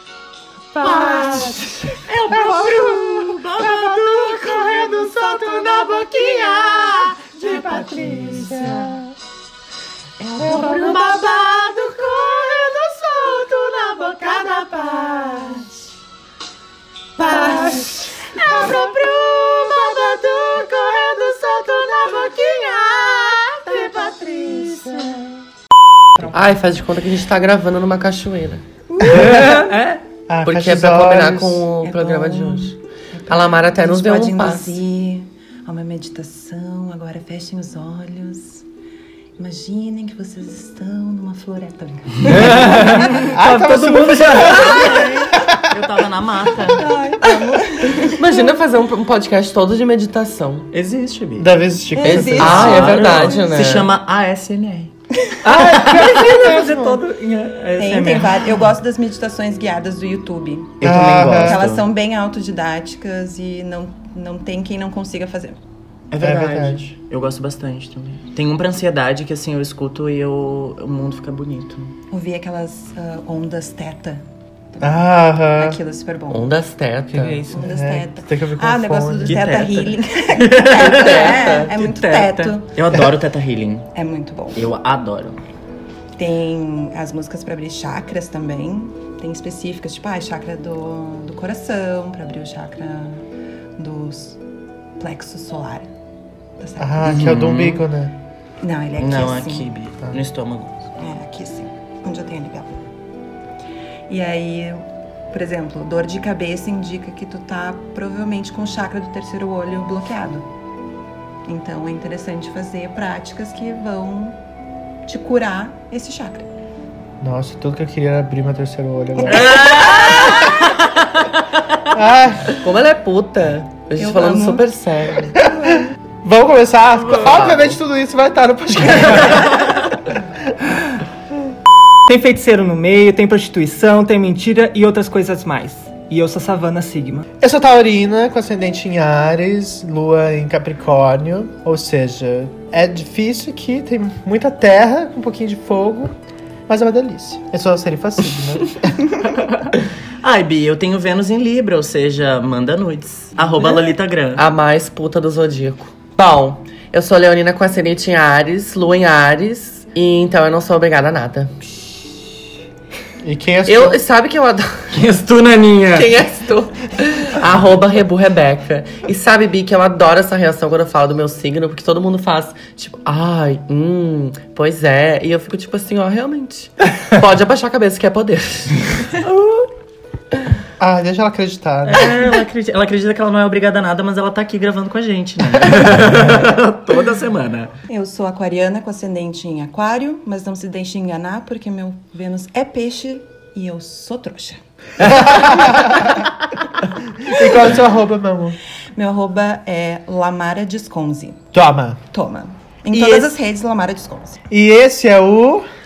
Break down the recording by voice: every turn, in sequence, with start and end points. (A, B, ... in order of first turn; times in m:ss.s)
0:00.7-0:09.1 A
0:02.5-0:03.2 B
0:08.2-0:08.9 B
0:10.2-0:15.7 A
0:17.2-0:25.3 A
0:26.3-0:28.6 C
0:28.9-0:29.7 D
0:29.1-0:30.0 E
0:29.1-0:29.6 B
0:30.3-0:31.7 B
0:30.4-0:32.8 C
0:31.8-0:38.6 D
0:33.3-0:34.8 C
0:39.4-0:43.3 D
0:42.3-0:46.9 F
0:42.4-0:43.0 E
0:43.3-0:45.8 B
0:46.7-0:48.2 D
0:48.0-0:50.7 C
0:50.7-0:51.5 F
0:51.4-0:52.8 B
0:52.0-0:53.6 D
0:52.0-0:53.9 C
0:52.4-0:54.9 F
0:55.4-0:58.2 E
0:55.4-0:57.0 B
0:55.9-0:56.2 F
0:57.8-1:05.6 D
0:57.9-0:58.3 F
1:00.8-1:01.8 F
1:00.8-1:01.6 B
1:06.1-1:11.9 F
1:06.2-1:06.9 B
1:12.1-1:16.6 D
1:14.8-1:15.8 B
1:16.3-1:17.4 C
1:17.2-1:17.5 E
1:17.5-1:19.5 B
1:17.5-1:22.7 D
1:19.2-1:23.9 F
1:20.8-1:21.7 C
1:23.9-1:24.6 D
1:24.5-1:25.4 F
1:26.2-1:33.2 D
1:33.8-1:34.4 D
1:35.0-1:35.9 D
1:36.6-1:37.3 D
1:36.8-1:38.2 B
1:37.0-1:37.8 F
1:38.6-1:39.7 D
1:39.0-1:40.8 F
1:41.0-1:42.8 D
1:44.1-1:50.4 D
1:51.4-1:54.4 D
1:55.0-1:56.5 D
1:57.2-1:59.7 B
1:59.3-2:01.2 F
1:59.6-2:00.3 D
2:01.9-2:02.6 B
2:02.5-2:05.4 C
2:04.0-2:04.7 D
2:05.3-2:05.9 D
2:06.2-2:09.8 B
2:07.0-2:07.8 F
2:12.0-2:17.2 E
2:17.4-2:26.1 B
2:26.7-2:29.2 B
2:30.2-2:34.4 F
2:34.4-2:41.5 C
2:43.2-2:44.0 B
2:43.6-2:45.0 C
2:44.9-2:46.1 F
2:45.9-2:59.2 C
3:00.8-3:02.2 B
3:01.9-3:07.7 F
3:07.9-3:16.2 D
3:15.0-3:16.2 B
3:17.2-3:18.6 B
3:18.9-3:21.4 D
3:21.5-3:22.0 B
3:22.1-3:24.4 D
3:22.9-3:23.3 F
3:24.5-3:25.6 B